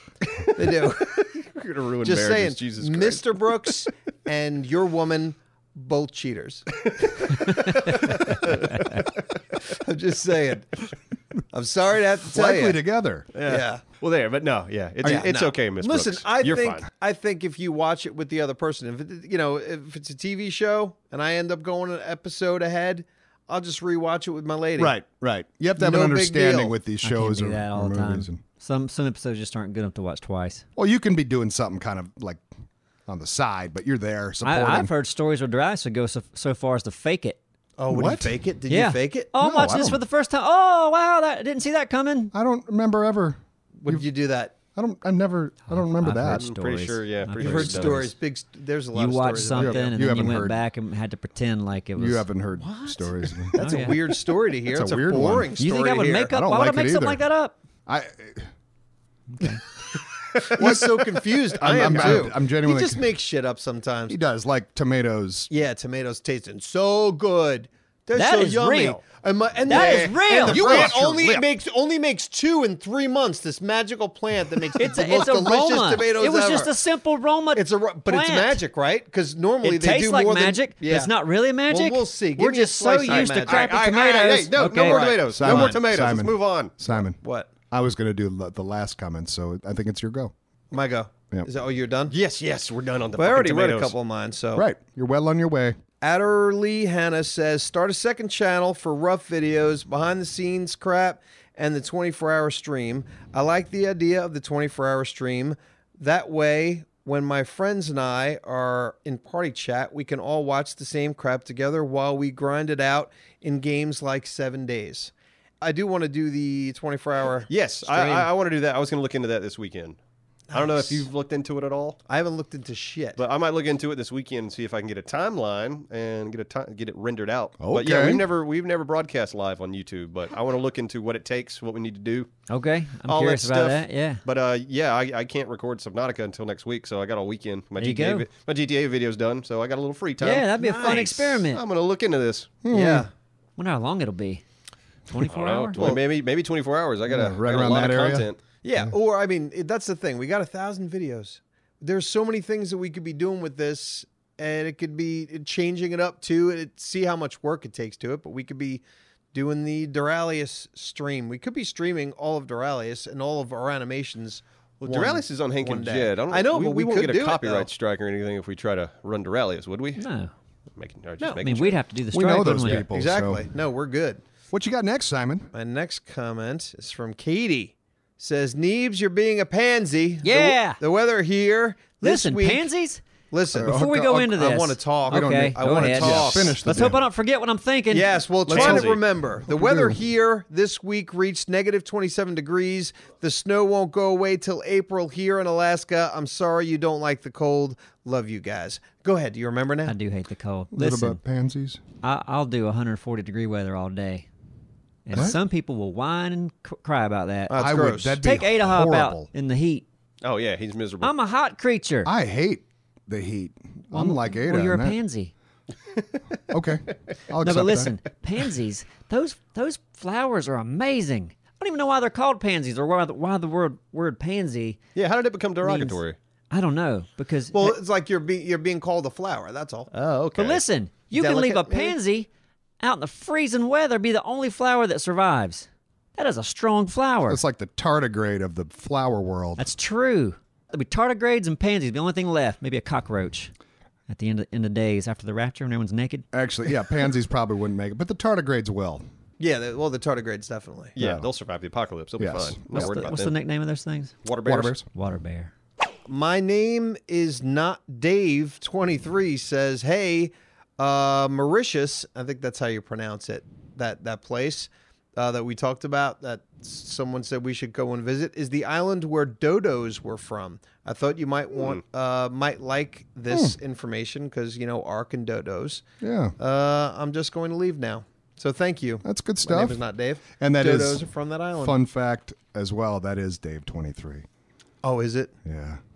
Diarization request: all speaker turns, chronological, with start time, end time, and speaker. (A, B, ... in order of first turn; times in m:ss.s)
0:00.4-0:01.4 A
0:01.4-0:03.6 B
0:02.0-0:09.0 A
0:09.6-0:10.9 A
0:11.5-0:12.8 A
0:12.3-0:13.3 C
0:13.3-0:16.9 B
0:13.4-0:13.8 A
0:15.0-0:25.0 A
0:24.8-0:28.4 C
0:25.8-0:26.7 A
0:27.0-0:30.6 D
0:30.8-0:32.4 C
0:33.1-0:34.9 C
0:34.4-0:37.4 D
0:37.8-0:39.3 A
0:37.9-0:38.4 C
0:38.7-0:42.3 D
0:39.4-0:40.0 C
0:42.3-0:44.1 C
0:43.8-0:44.5 A
0:44.7-0:46.4 C
0:45.7-0:48.0 D
0:46.3-0:48.1 B
0:47.4-0:49.9 A
0:48.9-0:54.0 D
0:49.5-0:50.6 C
0:52.0-0:55.5 C
0:53.5-0:56.3 A
0:55.6-0:57.6 D
0:56.3-0:57.2 C
0:57.8-0:58.5 C
0:59.3-0:59.6 D
1:00.4-1:04.2 A
1:00.5-1:03.0 C
1:01.8-1:02.1 B
1:04.1-1:05.5 C
1:05.5-1:16.7 A
1:08.1-1:09.0 D
1:09.6-1:10.9 D
1:10.4-1:11.2 C
1:10.4-1:11.4 B
1:14.8-1:18.6 D
1:17.5-1:21.1 A
1:19.6-1:25.0 D
1:21.7-1:23.7 A
1:23.1-1:26.7 B
1:24.6-1:25.8 A
1:25.3-1:27.2 C
1:27.2-1:27.5 A
1:27.7-1:30.3 C
1:30.7-1:32.1 A
1:32.1-1:33.9 B
1:33.2-1:34.7 A
1:34.5-1:35.8 C
1:36.0-1:58.3 A
1:57.5-2:00.0 B
2:00.5-2:01.0 A
2:00.5-2:02.0 B
2:02.1-2:03.2 A
2:03.2-2:12.3 B
2:07.6-2:08.3 C
2:12.5-2:14.2 D
2:13.0-2:22.5 B
2:17.8-2:18.3 D
2:20.2-2:21.6 D
2:20.7-2:21.0 A
2:22.6-2:23.1 C
2:22.7-2:23.1 A
2:23.6-2:24.4 D
2:25.1-2:25.8 D
2:25.3-2:28.4 B
2:25.8-2:26.0 A
2:27.1-2:28.9 C
2:28.6-2:47.7 A
2:44.8-2:50.0 B
2:50.0-2:50.3 D
2:50.8-2:51.8 B
2:51.2-2:51.6 A
2:51.4-2:52.8 D
2:52.1-2:53.4 C
2:52.9-2:54.2 A
2:54.5-2:55.5 C
2:55.5-3:02.7 A
3:00.2-3:00.8 D
3:02.0-3:03.0 D
3:03.3-3:06.6 A
3:03.5-3:04.4 C
3:03.6-3:08.2 D
3:05.1-3:07.0 C
3:07.9-3:19.9 A
3:08.4-3:10.0 C
3:08.5-3:09.0 B
3:19.9-3:21.2 D
3:20.7-3:21.8 C
3:22.0-3:24.3 D
3:25.0-3:29.8 D
3:25.1-3:25.4 C
3:27.5-3:28.2 A
3:27.5-3:29.3 C
3:30.2-3:31.1 B
3:31.0-3:32.1 D
3:32.0-3:35.0 C
3:33.9-3:35.3 D
3:36.5-3:38.0 C
3:37.4-3:44.8 D
3:44.9-3:46.2 B
3:45.6-3:46.0 D
3:46.5-3:47.8 D
3:47.5-3:49.9 A
3:49.9-3:50.6 B
3:50.4-3:52.3 D
3:51.1-3:52.0 A
3:52.8-3:57.4 D
3:57.3-3:59.7 C
3:59.6-4:03.5 D
4:04.1-4:06.2 D
4:06.3-4:09.0 C
4:09.4-4:10.9 A
4:10.9-4:13.3 B
4:11.0-4:11.3 C
4:12.2-4:12.9 C
4:12.7-4:14.1 D
4:14.2-4:14.7 B
4:14.4-4:14.8 C
4:14.9-4:15.5 D
4:16.0-4:35.8 A
4:33.3-4:33.6 C
4:36.0-4:36.4 C
4:36.4-4:41.8 A
4:39.0-4:39.8 C
4:40.4-4:44.2 C
4:44.8-4:45.3 A
4:45.4-4:45.8 C